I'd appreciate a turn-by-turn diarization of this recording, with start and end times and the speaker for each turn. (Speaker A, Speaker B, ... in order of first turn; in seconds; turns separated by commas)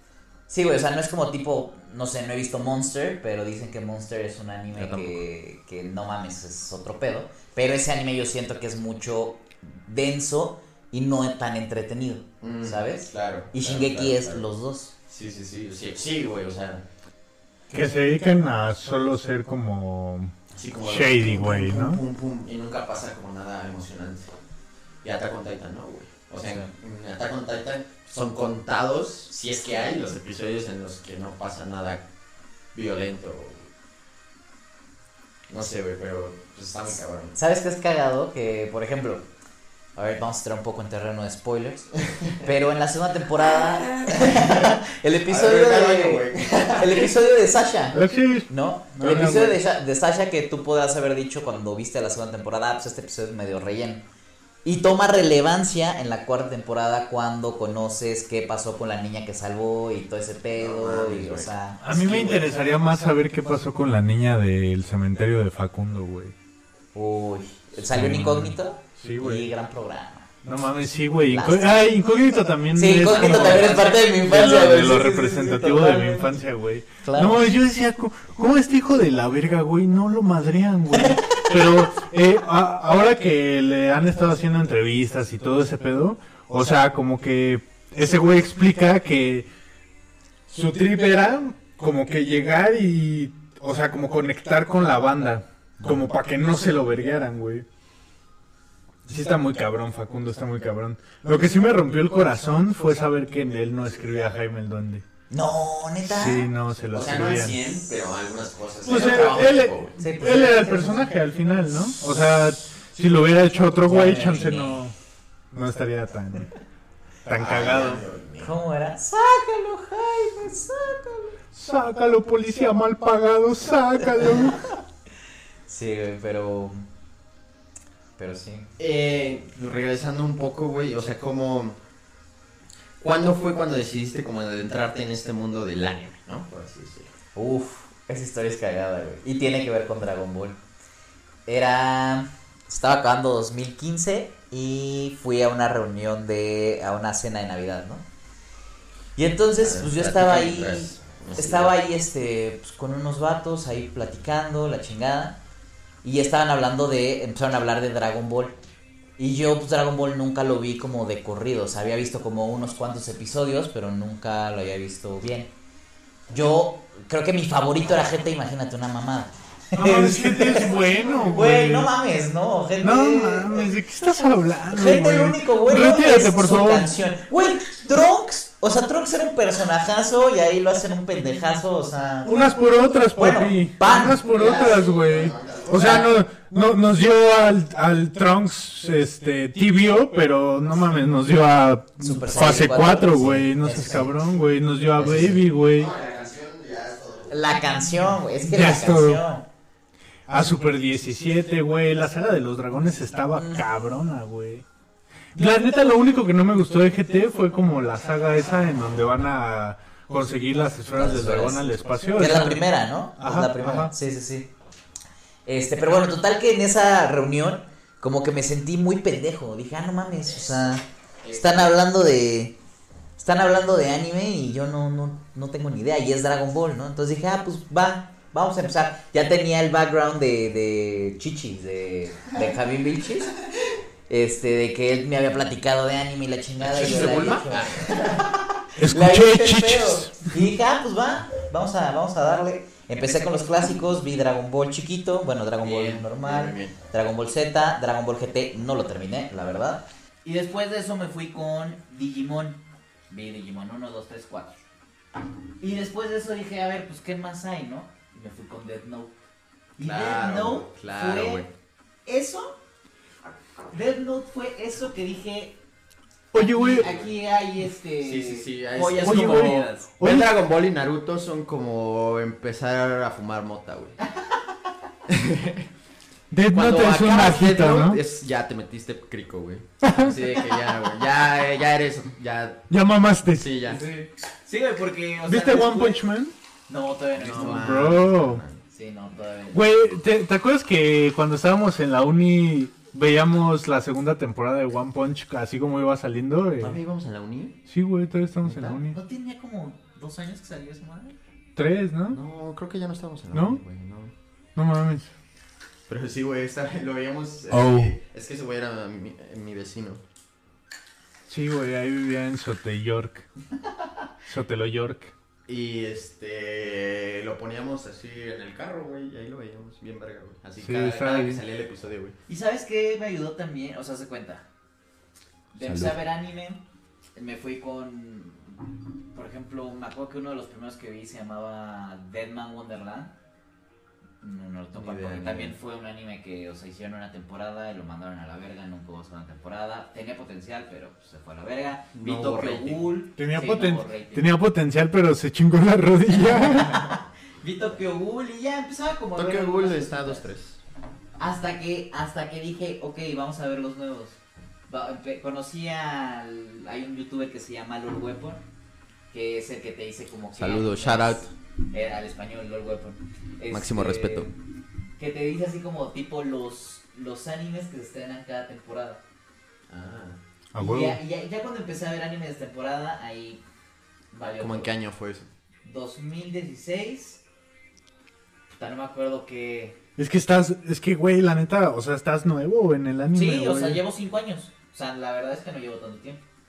Speaker A: 0.5-14.9, Speaker B: 4.7-5.2, Speaker B: 12.4-14.4, Speaker B: 15.1-16.9, Speaker C: 17.7-20.3, Speaker B: 20.5-24.3, Speaker C: 20.8-22.0, Speaker B: 25.0-32.0, Speaker A: 26.4-26.7, Speaker B: 32.8-33.7, Speaker B: 35.5-37.4, Speaker A: 37.4-39.3, Speaker A: 40.0-46.3, Speaker B: 42.1-42.5, Speaker B: 43.4-47.1, Speaker A: 46.8-54.0, Speaker C: 47.9-49.6, Speaker A: 54.6-61.8, Speaker B: 60.6-62.4, Speaker C: 61.8-66.3, Speaker A: 66.9-70.3, Speaker C: 67.9-69.5, Speaker C: 70.4-89.5, Speaker A: 71.3-71.8, Speaker A: 72.8-76.4, Speaker B: 73.1-73.4, Speaker A: 77.0-77.5, Speaker A: 81.0-81.4, Speaker C: 90.5-97.7, Speaker C: 99.1-105.0, Speaker A: 105.3-106.5, Speaker C: 106.0-107.6, Speaker B: 106.9-110.0, Speaker C: 108.8-114.9, Speaker A: 110.0-111.1, Speaker A: 113.8-114.9, Speaker C: 115.5-116.5, Speaker C: 117.2-118.0, Speaker B: 117.3-118.5, Speaker A: 117.5-117.8, Speaker A: 118.4-121.4, Speaker C: 121.5-124.7, Speaker A: 125.7-126.8, Speaker A: 128.2-128.7, Speaker B: 128.8-131.8, Speaker B: 133.0-137.1, Speaker A: 137.3-140.6, Speaker A: 141.5-148.1, Speaker A: 149.2-155.4, Speaker B: 149.6-151.8, Speaker A: 156.0-158.6, Speaker A: 159.2-165.5, Speaker A: 166.3-173.7, Speaker C: 169.8-171.9, Speaker C: 172.8-176.9, Speaker A: 174.7-182.5, Speaker C: 182.2-195.9, Speaker A: 183.2-184.2, Speaker B: 184.0-186.1, Speaker A: 185.8-186.1, Speaker A: 192.1-194.2, Speaker A: 195.0-195.4, Speaker B: 195.0-198.2, Speaker A: 197.3-199.5, Speaker C: 198.5-199.2, Speaker C: 200.3-204.6, Speaker A: 203.3-203.7, Speaker C: 205.3-212.7, Speaker A: 211.0-214.5, Speaker C: 213.2-213.9, Speaker A: 215.5-222.6, Speaker B: 220.3-221.7, Speaker A: 223.2-233.3, Speaker A: 234.1-238.2, Speaker B: 236.6-238.3, Speaker C: 238.8-240.2, Speaker A: 238.8-254.6, Speaker B: 245.6-246.8, Speaker A: 255.6-259.1, Speaker A: 259.8-261.4, Speaker B: 259.8-261.5, Speaker A: 262.1-262.6, Speaker A: 263.7-265.6, Speaker C: 266.3-266.9, Speaker A: 266.3-269.9, Speaker B: 266.8-267.1, Speaker B: 268.0-274.0, Speaker C: 269.0-270.3, Speaker B: 275.1-275.7, Speaker C: 276.3-278.0, Speaker B: 276.5-282.7, Speaker C: 279.8-280.2, Speaker C: 282.7-283.8, Speaker B: 283.3-283.8, Speaker A: 283.8-286.0, Speaker C: 285.3-286.3, Speaker A: 286.7-287.7, Speaker B: 287.1-288.6, Speaker C: 287.3-288.4, Speaker A: 288.7-289.6, Speaker C: 289.5-296.8, Speaker B: 296.6-297.6, Speaker C: 297.7-299.0, Speaker B: 298.4-298.8, Speaker A: 298.9-301.2, Speaker C: 301.6-302.2, Speaker B: 302.1-304.1, Speaker C: 303.3-303.6, Speaker C: 304.6-305.1, Speaker B: 305.9-310.0, Speaker C: 307.5-308.0, Speaker C: 311.3-313.3, Speaker C: 314.3-315.1, Speaker B: 315.5-322.2, Speaker C: 320.6-321.4, Speaker A: 322.3-324.4, Speaker A: 325.5-326.6, Speaker B: 325.6-326.0, Speaker A: 327.2-328.6, Speaker A: 329.1-333.1, Speaker A: 334.2-344.3, Speaker B: 334.7-335.6, Speaker B: 341.9-342.9, Speaker C: 343.2-346.9, Speaker A: 346.1-350.2, Speaker B: 349.2-350.6, Speaker A: 351.2-358.4, Speaker A: 359.1-364.3, Speaker B: 360.4-361.3, Speaker B: 363.5-364.3, Speaker A: 365.0-369.0, Speaker B: 369.7-370.2, Speaker C: 370.5-371.0, Speaker A: 370.6-373.4, Speaker A: 374.1-374.7, Speaker B: 374.4-375.3, Speaker A: 375.6-377.2, Speaker A: 378.5-379.8, Speaker C: 380.0-383.8, Speaker A: 383.1-386.2